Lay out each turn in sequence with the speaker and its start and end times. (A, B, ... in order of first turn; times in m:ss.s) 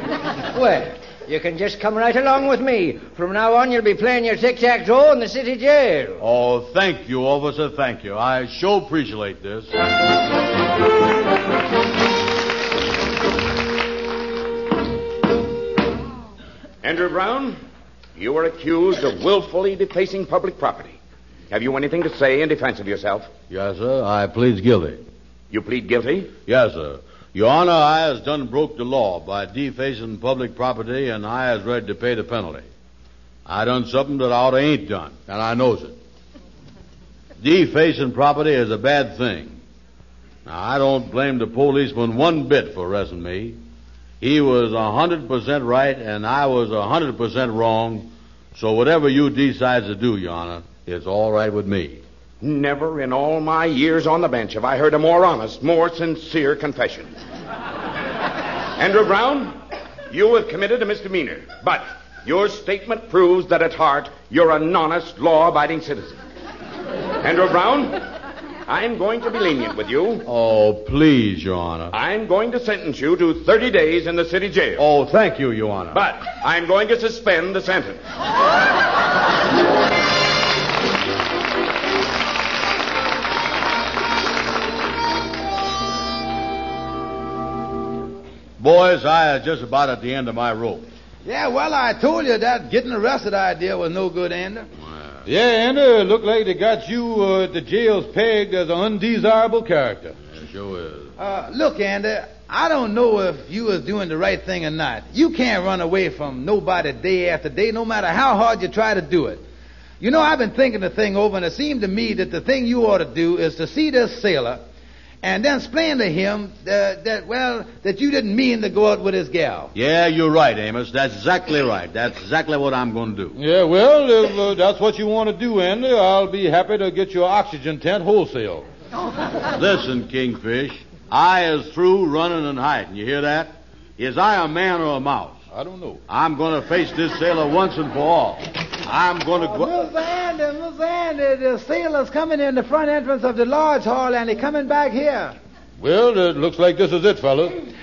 0:00.5-0:06.2 A
0:06.2-0:09.7 B
0:16.8-0:17.6 C
0:18.1-0:21.0 C
0:21.5-0:23.3 C
0:23.5-0:25.0 B
0:25.5-0:26.3 C
0:26.4-0:32.7 B
0:33.4-0:36.0 B
0:37.4-0:39.6 B
0:40.4-0:43.6 B
0:44.2-0:52.0 B
0:52.4-0:57.1 C
0:58.8-0:59.5 C
1:00.1-1:06.2 C
1:07.2-1:08.0 C
1:08.7-1:10.2 C
1:10.2-1:11.9 B
1:11.9-1:14.8 C
1:14.8-1:16.0 B
1:15.9-1:18.0 C
1:28.6-1:30.9 B
1:31.2-1:34.7 D
1:34.8-1:35.2 B
1:35.2-1:40.2 E
1:40.2-1:41.1 B
1:41.2-1:49.4 D
1:50.0-1:54.6 D
1:55.2-1:59.7 D
1:59.7-2:03.4 B
2:03.4-2:08.6 E
2:09.5-2:15.4 B
2:15.5-2:16.0 E
2:16.1-2:19.9 B
2:19.4-2:25.4 F
2:25.8-2:27.6 E